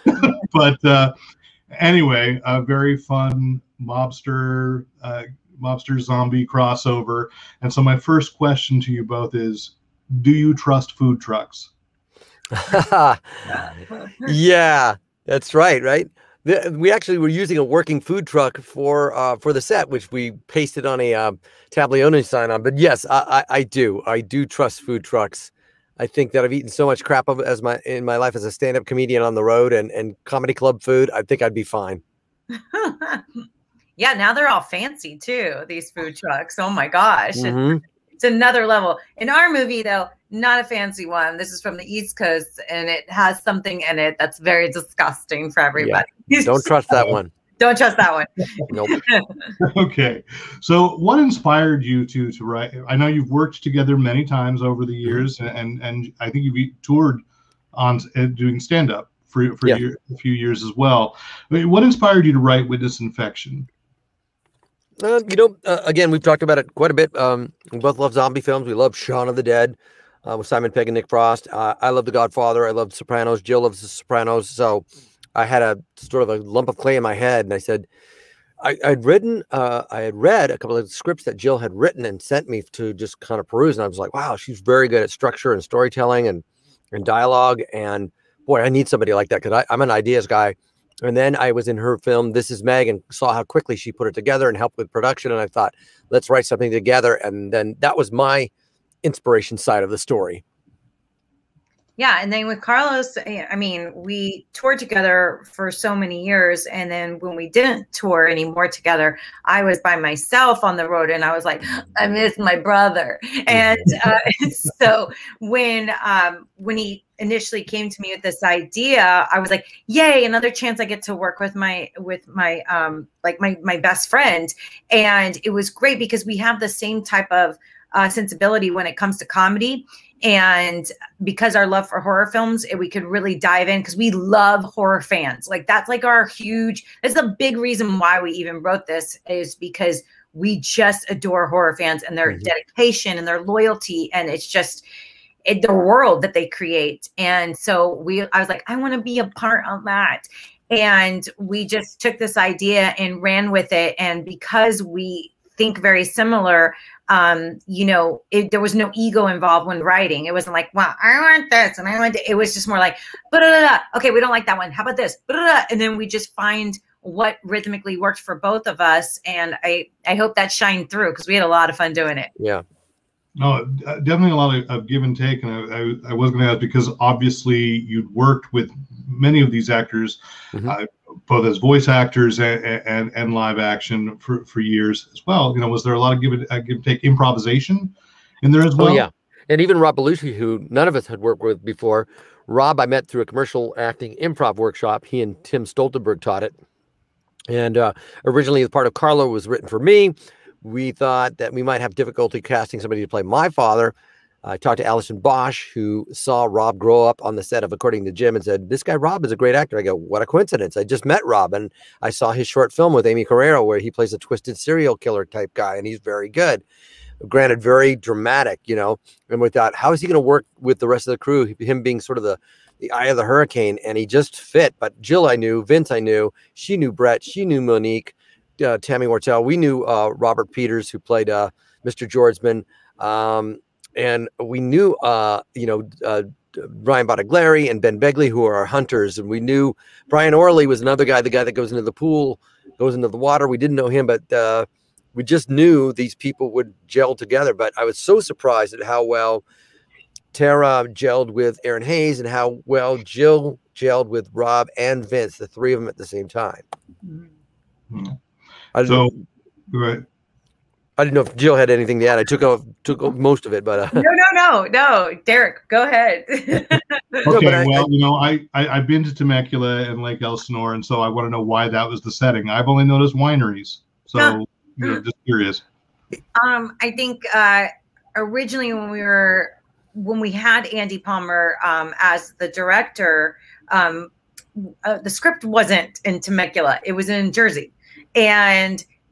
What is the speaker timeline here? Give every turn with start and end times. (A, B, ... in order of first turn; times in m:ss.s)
0:00.2-0:01.1 A
0:01.7-0:11.7 A
0:12.5-0:13.6 B
0:14.2-0:32.0 B
0:32.5-0:33.2 C
0:34.0-0:37.6 C
0:37.3-0:37.8 B
0:38.2-0:46.9 C
0:45.8-0:47.3 B
0:47.6-0:49.4 C
0:48.7-0:49.0 B
0:49.6-0:57.2 A
0:57.7-1:03.7 A
1:05.0-1:14.8 B
1:15.4-1:17.8 B
1:18.6-1:38.5 B
1:39.0-1:40.4 B
1:42.0-2:24.8 C
2:22.2-2:22.5 B
2:25.4-2:52.3 C
2:52.4-2:52.6 B
2:53.4-3:09.0 A
3:08.8-3:16.5 B
3:17.5-3:36.6 B
3:37.2-4:09.4 B
4:10.3-4:16.6 B
4:17.9-4:18.2 A
4:18.7-4:19.1 B
4:18.8-4:19.2 A
4:19.7-4:20.0 A
4:21.0-4:24.0 B
4:23.9-4:27.3 C
4:27.2-4:35.6 A
4:27.3-4:27.9 B
4:34.2-4:35.0 C
4:36.4-4:48.8 C